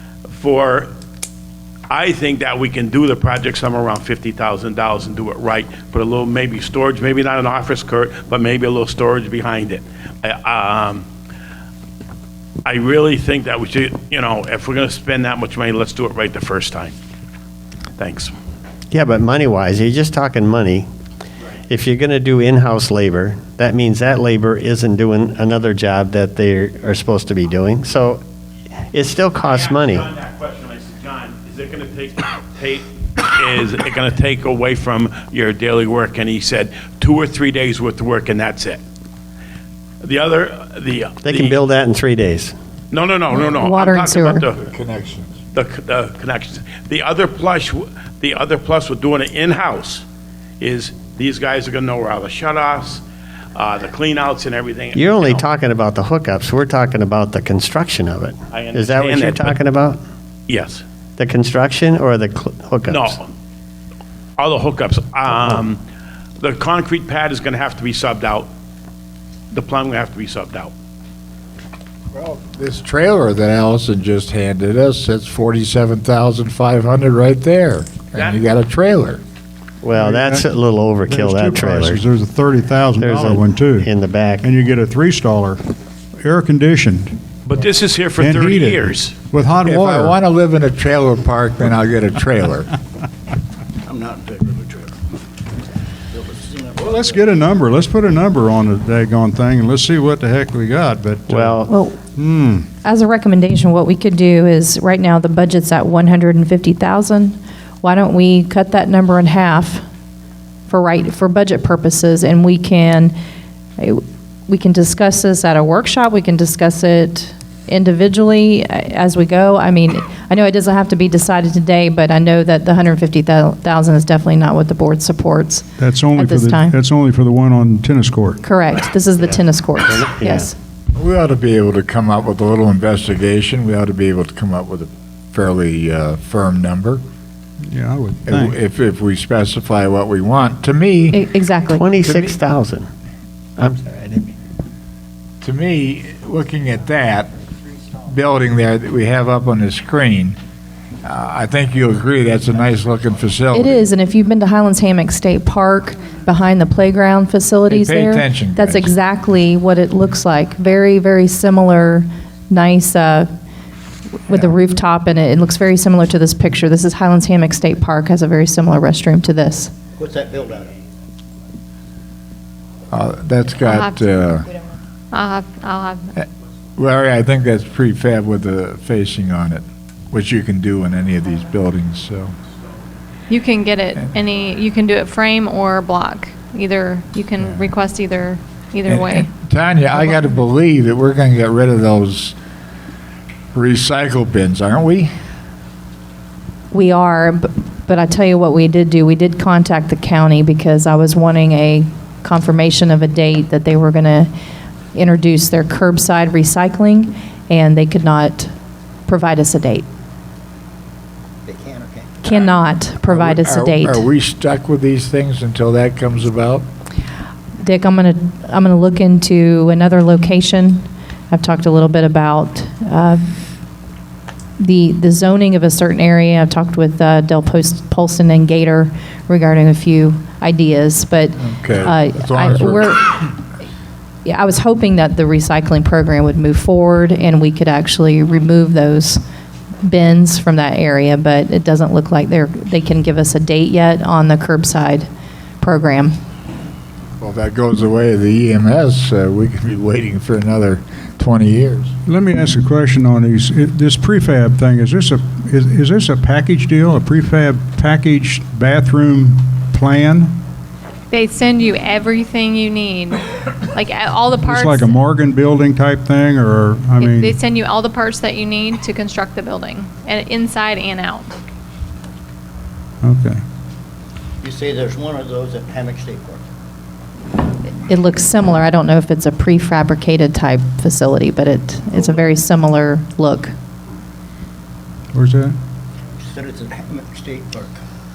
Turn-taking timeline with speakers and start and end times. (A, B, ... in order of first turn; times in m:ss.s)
0:00.3-0:00.9 A
0:01.9-0:11.0 A
0:12.6-0:17.0 A
0:18.0-0:18.3 A
0:18.9-0:20.9 B
0:21.7-0:28.2 B
0:28.9-0:30.1 B
0:29.4-0:38.8 A
0:40.0-0:41.6 A
0:41.2-0:42.5 B
0:42.9-0:44.6 A
0:43.3-0:44.4 C
0:44.6-0:45.4 D
0:45.5-0:50.0 A
0:50.6-0:53.0 A
0:53.6-0:55.5 A
0:54.9-1:00.0 B
0:58.5-0:59.6 A
1:00.5-1:00.8 A
1:01.2-1:03.2 B
1:02.9-1:03.3 A
1:04.4-1:05.8 A
1:06.4-1:08.5 A
1:09.5-1:10.7 A
1:12.1-1:19.2 D
1:19.8-1:22.0 B
1:19.9-1:20.5 E
1:21.1-1:25.6 E
1:23.0-1:24.4 B
1:26.2-1:27.2 E
1:27.5-1:29.2 A
1:28.2-1:30.2 E
1:29.6-1:32.7 D
1:33.8-1:35.0 F
1:36.1-1:37.4 F
1:36.8-1:42.7 E
1:41.3-1:41.7 B
1:41.7-1:42.0 C
1:42.8-1:49.8 C
1:50.7-1:53.1 C
1:53.8-2:06.8 C
2:05.8-2:08.4 E
2:08.4-2:10.6 C
2:09.2-2:10.5 B
2:11.0-2:17.0 D
2:17.7-2:18.6 E
2:18.3-2:21.2 D
2:21.1-2:21.9 C
2:21.8-2:22.9 B
2:22.0-2:22.4 D
2:23.6-2:24.3 B
2:25.4-2:27.3 D
2:28.0-2:30.4 D
2:31.0-2:33.8 D
2:33.5-2:43.3 C
2:37.7-2:38.9 D
2:44.3-2:49.8 C
2:50.0-2:50.8 F
2:52.9-2:54.5 D
2:53.6-2:54.0 G
2:55.1-2:56.0 G
2:56.8-3:02.3 D
3:03.3-3:09.3 G
3:08.9-3:12.4 D
3:13.5-3:15.1 D
3:16.7-3:24.3 C
3:25.0-3:28.5 C
3:29.1-3:29.8 C
3:31.5-3:32.2 F
3:32.2-3:34.0 C
3:33.0-3:36.6 D
3:37.6-3:43.3 C
3:44.6-3:53.3 C
3:51.4-3:52.9 D
3:54.2-3:59.2 C
3:59.8-4:05.1 C
4:05.6-4:06.1 C
4:07.2-4:11.9 D
4:12.1-4:20.4 E
4:21.1-4:24.9 G
4:24.4-4:27.4 E
4:27.0-4:31.3 G
4:33.0-4:33.4 E
4:34.4-4:36.4 F
4:37.8-4:43.5 C
4:45.1-4:45.6 E
4:46.2-4:47.8 F